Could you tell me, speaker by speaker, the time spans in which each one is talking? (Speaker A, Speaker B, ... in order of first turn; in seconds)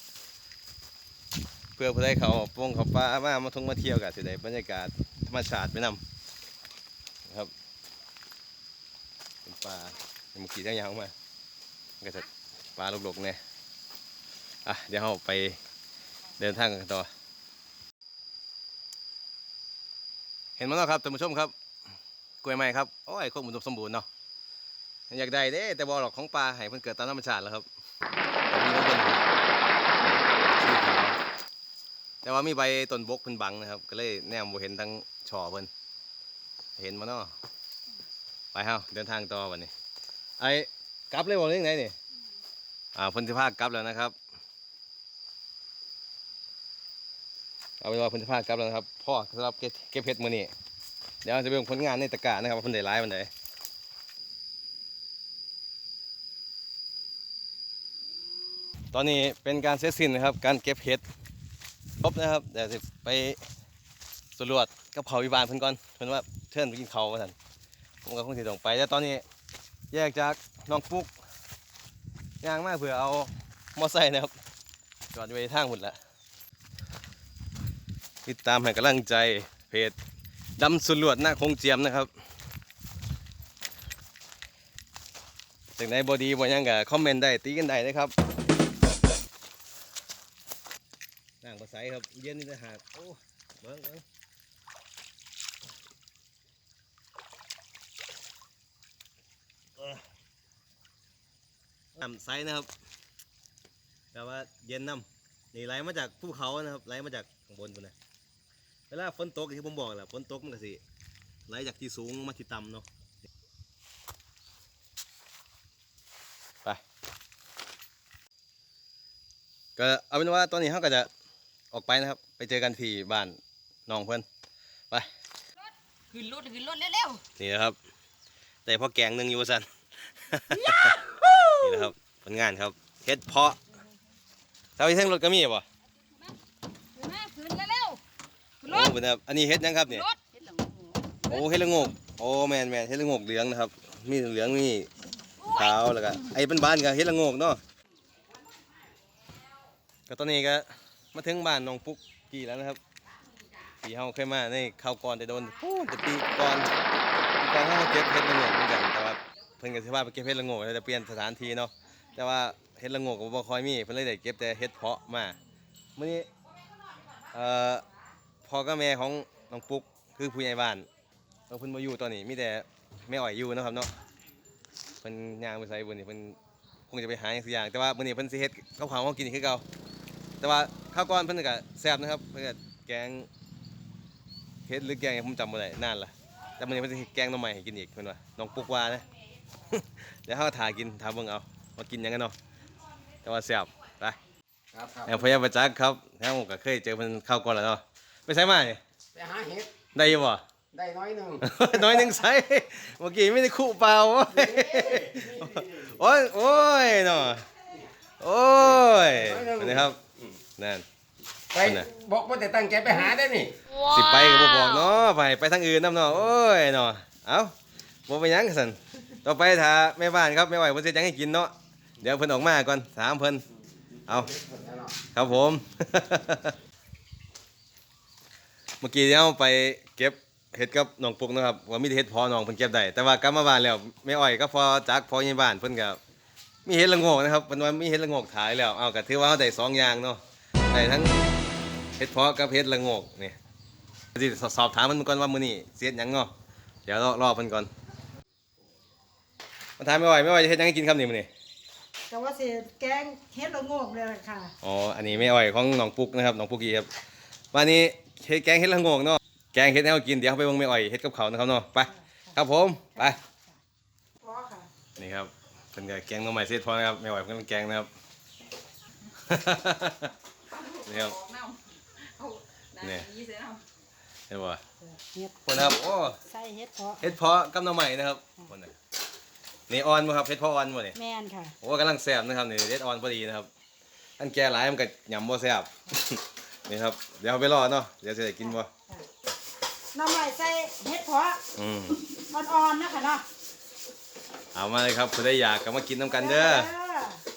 Speaker A: 1.8-6.0, 9.4-11.1, 12.0-13.4, 14.6-15.6, 16.4-17.1, 20.6-21.5, 22.4-24.1, 25.1-27.6, 28.5-29.2, 30.0-31.2, 32.2-35.7, 36.8-37.3, 38.5-39.7, 40.4-41.9, 42.9-44.1, 47.8-50.5, 51.2-53.3, 58.9-61.0, 62.0-63.4, 64.4-67.3, 68.0-69.2, 69.9-71.1, 72.4-74.3, 75.1-76.0, 78.2-80.0, 80.6-82.1, 85.8-88.1, 91.4-94.0, 102.0-102.7, 104.1-107.9, 108.9-110.8, 111.5-112.8, 119.8-121.1, 121.7-124.2, 127.4-127.8, 128.7-131.0, 131.6-133.6, 134.8-135.6, 138.7-140.0, 141.3-144.9, 145.5-147.6, 150.1-152.8, 153.8-156.7, 157.4-165.4, 166.0-166.3, 167.3-167.8, 168.4-170.9, 171.5-173.9, 175.0-176.4, 176.9-179.6, 180.4-183.3, 184.7-189.1, 189.7-192.3, 193.2-194.2, 195.1-198.8, 199.9-200.4, 201.4-207.5, 208.2-210.0, 210.6-210.8, 211.6-211.9, 213.9-217.5, 218.1-223.4, 225.1-226.5, 228.8-236.0, 236.6-241.2, 242.0-243.4, 244.1-246.3, 246.8-247.7, 249.8-251.3, 254.6-256.9, 257.5-263.2, 265.0-267.9, 269.2-270.1, 270.9-271.1, 272.8-273.1, 274.3-274.6, 275.4-276.2, 277.0-278.7, 279.7-280.9, 281.6-283.5, 284.2-288.7, 291.5-292.0, 294.5-296.7
Speaker B: 125.6-127.2, 130.5-131.2, 135.9-136.4, 136.9-138.0, 138.6-138.9, 139.8-141.9, 145.4-145.8, 148.2-149.4, 166.7-167.3, 270.5-273.6
Speaker C: 130.8-131.9, 252.1-254.5, 264.2-264.7, 274.8-277.1, 280.9-281.5, 289.9-291.4, 292.1-293.2, 296.1-297.2
Speaker D: 194.7-195.2, 199.1-199.7, 200.7-202.2, 204.3-205.9, 209.1-210.3, 211.5-213.6, 224.1-225.0